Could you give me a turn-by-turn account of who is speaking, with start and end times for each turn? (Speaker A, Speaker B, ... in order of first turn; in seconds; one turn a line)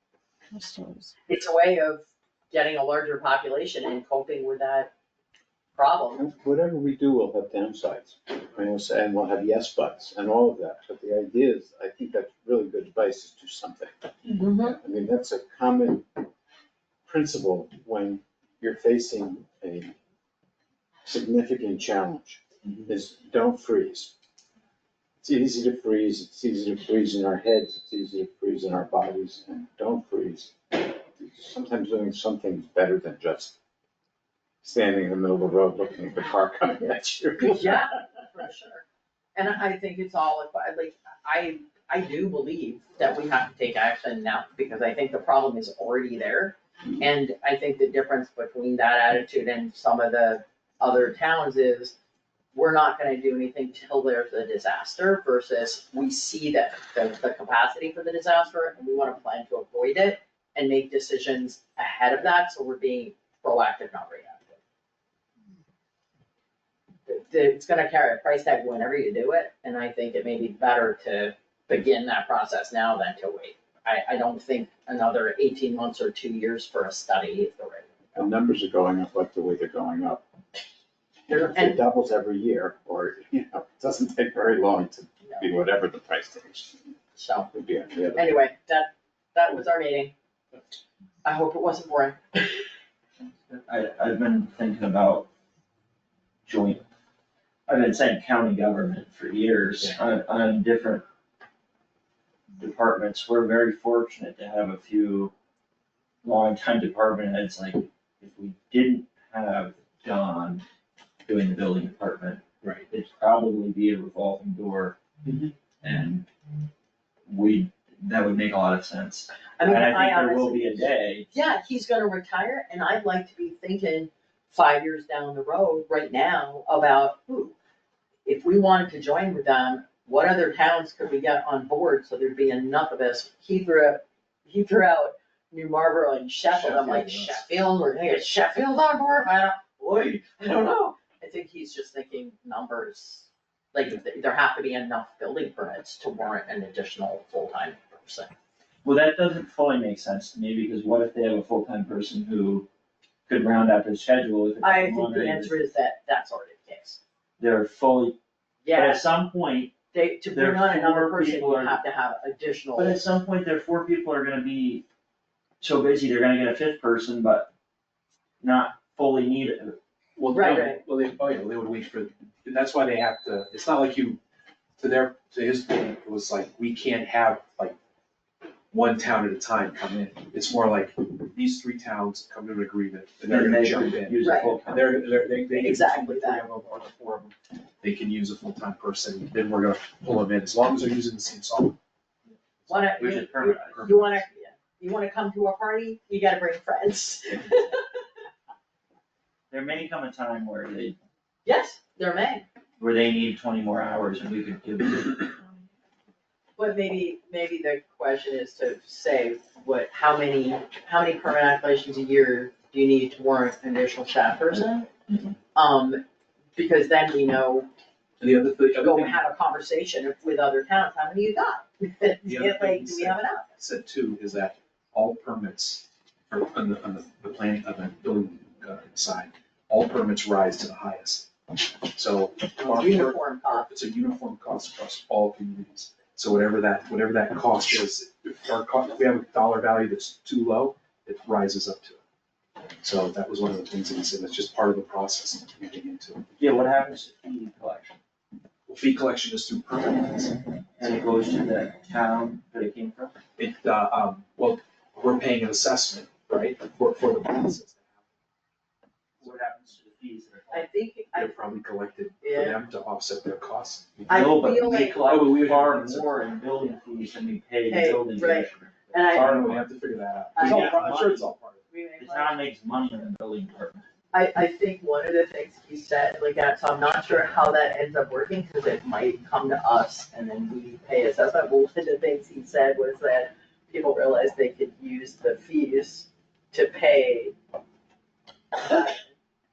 Speaker A: 1.3-4.9
Speaker A: 5.8-6.2
Speaker B: 6.1-16.2
Speaker A: 14.3-14.8
Speaker B: 17.1-19.9
Speaker B: 21.1-24.1
Speaker B: 25.2-33.6
Speaker B: 34.6-37.9
Speaker A: 37.4-38.8
Speaker A: 39.4-52.0
Speaker A: 52.5-64.6
Speaker A: 67.1-78.3
Speaker B: 78.2-80.2
Speaker A: 81.3-81.8
Speaker B: 81.3-86.8
Speaker A: 85.2-85.6
Speaker A: 87.2-87.5
Speaker B: 87.5-88.2
Speaker A: 88.1-90.1
Speaker A: 91.2-92.7
Speaker C: 93.5-95.3
Speaker C: 96.5-96.8
Speaker C: 97.7-101.0
Speaker C: 102.6-105.3
Speaker C: 106.2-110.7
Speaker C: 111.2-115.0
Speaker D: 115.2-115.5
Speaker C: 115.8-116.3
Speaker C: 117.3-121.3
Speaker A: 119.6-127.5
Speaker A: 128.2-148.3
Speaker D: 136.5-137.4
Speaker C: 148.8-152.7
Speaker C: 153.3-155.5
Speaker A: 154.6-157.0
Speaker C: 157.4-158.2
Speaker A: 158.6-159.1
Speaker C: 158.7-159.8
Speaker A: 159.9-163.0
Speaker C: 160.3-161.8
Speaker C: 162.8-164.8
Speaker C: 165.6-167.5
Speaker C: 168.4-169.8
Speaker D: 170.2-174.2
Speaker A: 170.3-170.8
Speaker D: 174.8-177.8
Speaker D: 178.7-191.8
Speaker C: 183.3-185.1
Speaker A: 184.2-184.6
Speaker A: 185.5-186.4
Speaker A: 192.7-198.0
Speaker C: 193.0-193.9
Speaker D: 193.8-194.2
Speaker C: 199.5-201.0
Speaker A: 201.4-202.5
Speaker C: 202.8-205.3
Speaker A: 206.6-214.9
Speaker C: 214.5-215.3
Speaker A: 215.5-216.0
Speaker A: 216.6-217.7
Speaker D: 218.2-219.2
Speaker A: 218.8-223.6
Speaker D: 222.2-231.3
Speaker D: 231.9-242.0
Speaker A: 232.6-233.7
Speaker D: 242.8-246.3
Speaker C: 246.4-248.0
Speaker D: 248.7-250.4
Speaker C: 250.8-253.2
Speaker D: 253.4-257.9
Speaker C: 259.2-260.7
Speaker A: 260.5-261.4
Speaker D: 261.1-264.1
Speaker A: 262.2-262.6
Speaker C: 264.1-269.6
Speaker A: 264.1-265.3
Speaker D: 265.0-266.2
Speaker A: 267.7-269.6
Speaker D: 269.1-271.6
Speaker A: 270.4-271.1
Speaker C: 270.4-271.3
Speaker A: 271.7-272.4
Speaker C: 272.0-273.8
Speaker A: 274.1-287.4
Speaker A: 288.5-289.1